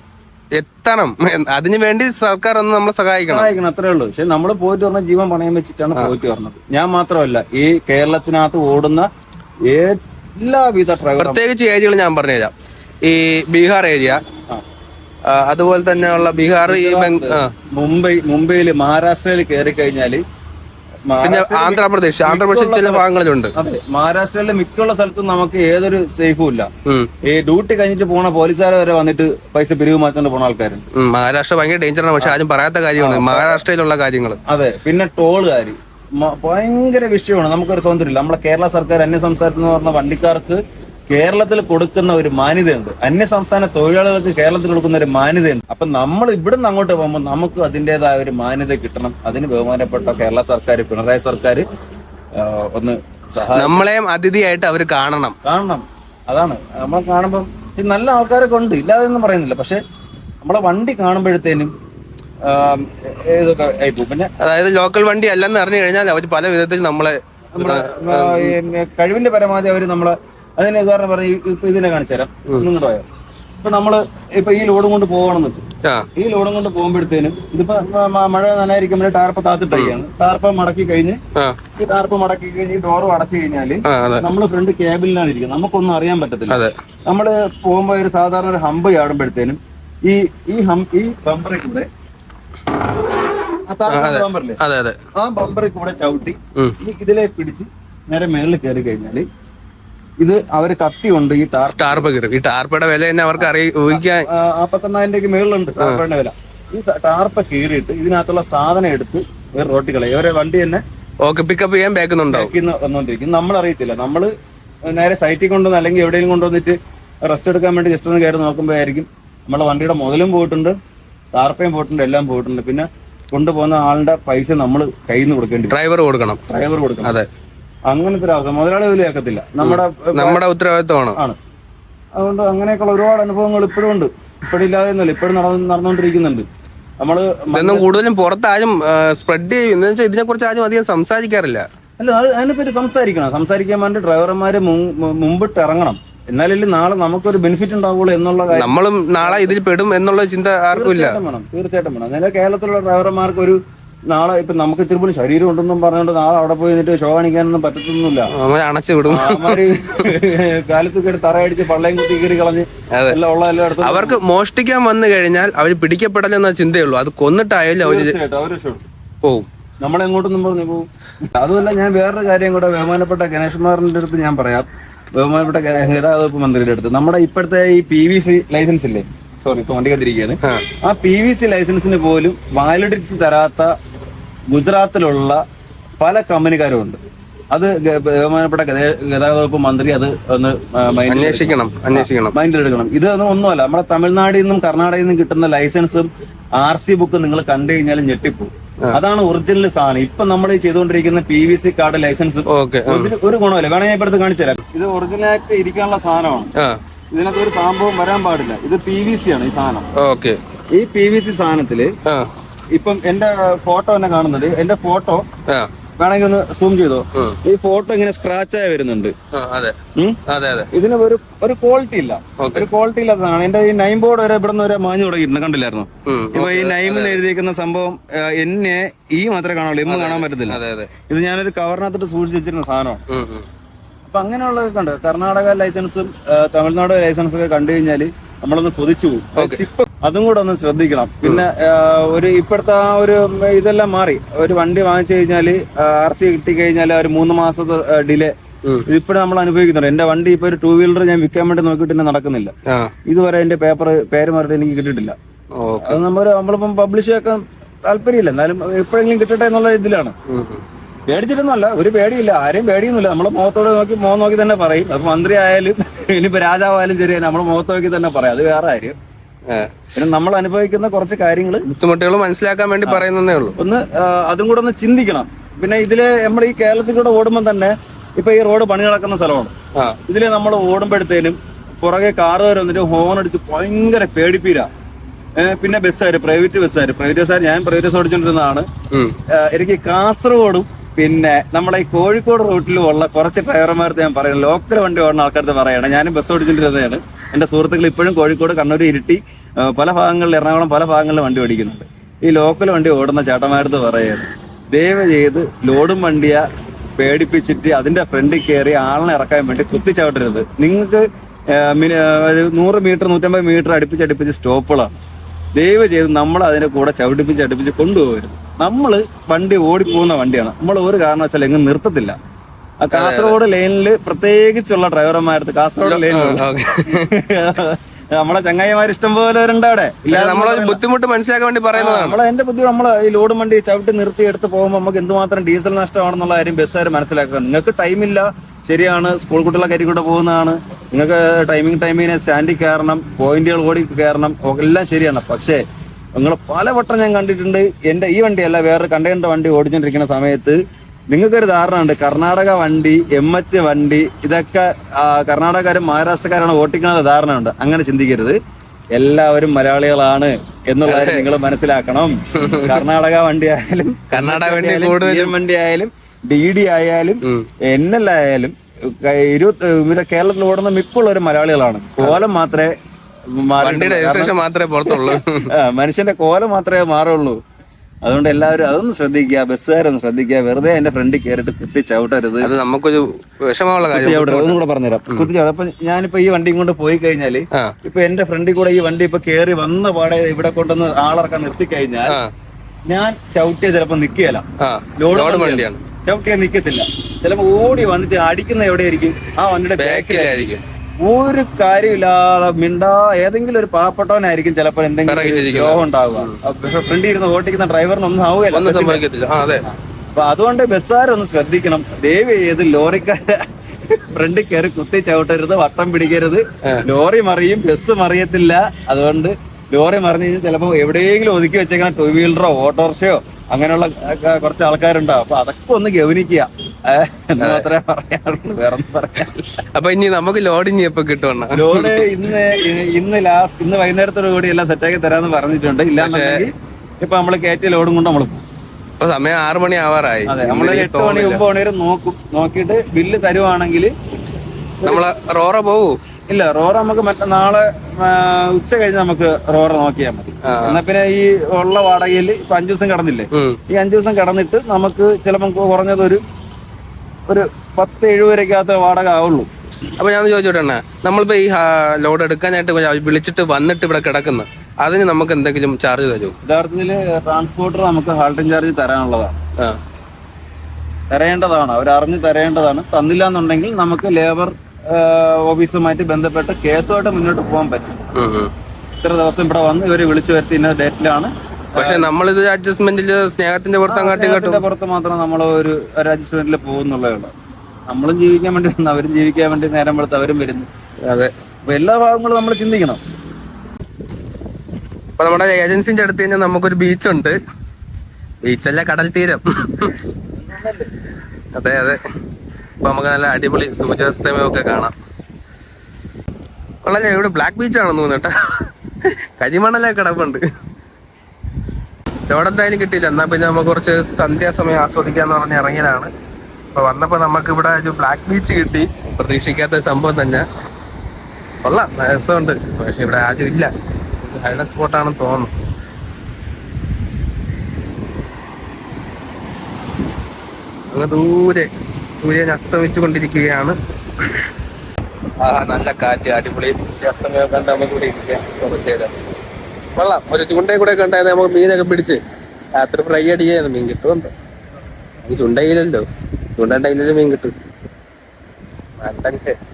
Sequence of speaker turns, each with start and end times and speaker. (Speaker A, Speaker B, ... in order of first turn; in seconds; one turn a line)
Speaker A: 0.6-3.5
Speaker B: 3.2-9.1
Speaker B: 9.7-11.4
Speaker A: 11.2-12.5
Speaker A: 13.0-14.2
Speaker A: 15.3-17.5
Speaker B: 16.6-20.2
Speaker B: 21.1-23.0
Speaker A: 21.2-23.6
Speaker B: 23.6-26.7
Speaker B: 27.2-30.8
Speaker A: 30.9-34.4
Speaker B: 33.0-33.6
Speaker B: 34.5-51.6
Speaker B: 52.4-53.9
Speaker A: 53.5-55.4
Speaker B: 55.4-59.8
Speaker B: 60.4-61.7
Speaker B: 62.4-64.3
Speaker A: 64.4-68.6
Speaker B: 67.5-73.1
Speaker B: 73.6-75.7
Speaker B: 76.2-81.2
Speaker B: 81.8-91.9
Speaker A: 83.9-84.3
Speaker B: 93.7-94.6
Speaker A: 93.9-95.0
Speaker B: 95.2-99.3
Speaker B: 100.2-102.1
Speaker A: 101.8-104.3
Speaker B: 103.4-110.8
Speaker A: 111.2-112.5
Speaker B: 112.3-114.3
Speaker B: 114.9-120.8
Speaker B: 121.3-125.8
Speaker A: 125.7-126.4
Speaker B: 126.5-127.2
Speaker B: 127.9-130.4
Speaker A: 129.6-131.2
Speaker B: 132.2-136.5
Speaker B: 137.0-137.9
Speaker A: 137.5-141.7
Speaker B: 142.0-149.6
Speaker A: 148.5-151.2
Speaker B: 150.7-158.3
Speaker A: 158.3-160.1
Speaker B: 159.1-164.2
Speaker A: 162.9-163.2
Speaker A: 163.8-168.2
Speaker B: 167.8-168.8
Speaker B: 169.8-183.7
Speaker B: 184.5-185.4
Speaker B: 186.0-206.5
Speaker A: 191.1-192.3
Speaker A: 202.5-203.1
Speaker B: 207.1-209.9
Speaker A: 210.0-210.4
Speaker B: 210.7-211.9
Speaker B: 212.7-215.3
Speaker B: 216.0-219.2
Speaker A: 219.3-219.8
Speaker B: 220.0-233.0
Speaker A: 220.3-220.7
Speaker A: 222.4-222.7
Speaker A: 226.1-227.2
Speaker A: 229.9-230.9
Speaker A: 233.1-233.5
Speaker B: 234.1-248.3
Speaker B: 248.9-252.5
Speaker A: 252.7-252.9
Speaker B: 253.1-255.2
Speaker A: 255.6-256.0
Speaker B: 255.8-260.1
Speaker A: 260.3-260.6
Speaker B: 261.1-269.0
Speaker A: 269.5-269.9
Speaker B: 269.9-271.6
Speaker A: 271.7-273.6
Speaker B: 273.6-279.5
Speaker B: 280.1-284.7
Speaker B: 285.4-288.7
Speaker B: 289.3-306.4
Speaker B: 307.0-314.9
Speaker B: 315.6-322.2
Speaker B: 322.8-330.8
Speaker A: 322.9-323.4
Speaker A: 325.8-327.1
Speaker A: 330.1-332.2
Speaker B: 331.7-345.6
Speaker B: 346.2-358.4
Speaker B: 358.9-372.7
Speaker A: 360.9-361.3
Speaker A: 362.4-362.9
Speaker A: 364.1-365.3
Speaker B: 373.3-377.4
Speaker A: 373.6-375.5
Speaker B: 378.0-382.5
Speaker A: 382.4-384.6
Speaker B: 383.9-392.2
Speaker B: 392.9-394.4
Speaker A: 394.6-395.8
Speaker B: 395.0-400.5
Speaker A: 399.8-400.6
Speaker B: 401.0-409.0
Speaker A: 405.1-406.4
Speaker A: 408.5-409.6
Speaker B: 409.7-429.6
Speaker A: 427.4-427.7
Speaker A: 429.8-432.1
Speaker B: 431.5-438.4
Speaker A: 436.0-436.4
Speaker A: 439.0-441.4
Speaker B: 440.3-443.9
Speaker B: 444.8-445.1
Speaker A: 444.9-446.0
Speaker B: 446.3-456.2
Speaker A: 450.4-450.8
Speaker A: 453.3-453.6
Speaker B: 457.3-459.5
Speaker A: 460.0-466.4
Speaker B: 466.4-469.4
Speaker B: 471.1-478.1
Speaker A: 478.1-478.5
Speaker B: 479.0-482.1
Speaker A: 481.8-484.6
Speaker B: 483.9-487.3
Speaker B: 487.9-490.7
Speaker B: 491.7-493.0
Speaker A: 495.2-497.4
Speaker A: 498.4-499.9
Speaker B: 500.4-500.9
Speaker A: 501.6-502.0
Speaker A: 502.8-504.9
Speaker A: 506.9-510.4
Speaker A: 512.3-516.1
Speaker A: 516.8-520.5
Speaker A: 521.6-523.7
Speaker A: 524.2-525.5
Speaker A: 530.9-531.7
Speaker A: 532.2-533.8
Speaker A: 535.4-539.1
Speaker A: 540.0-542.2
Speaker A: 542.8-544.3
Speaker A: 545.2-547.5
Speaker A: 549.0-549.6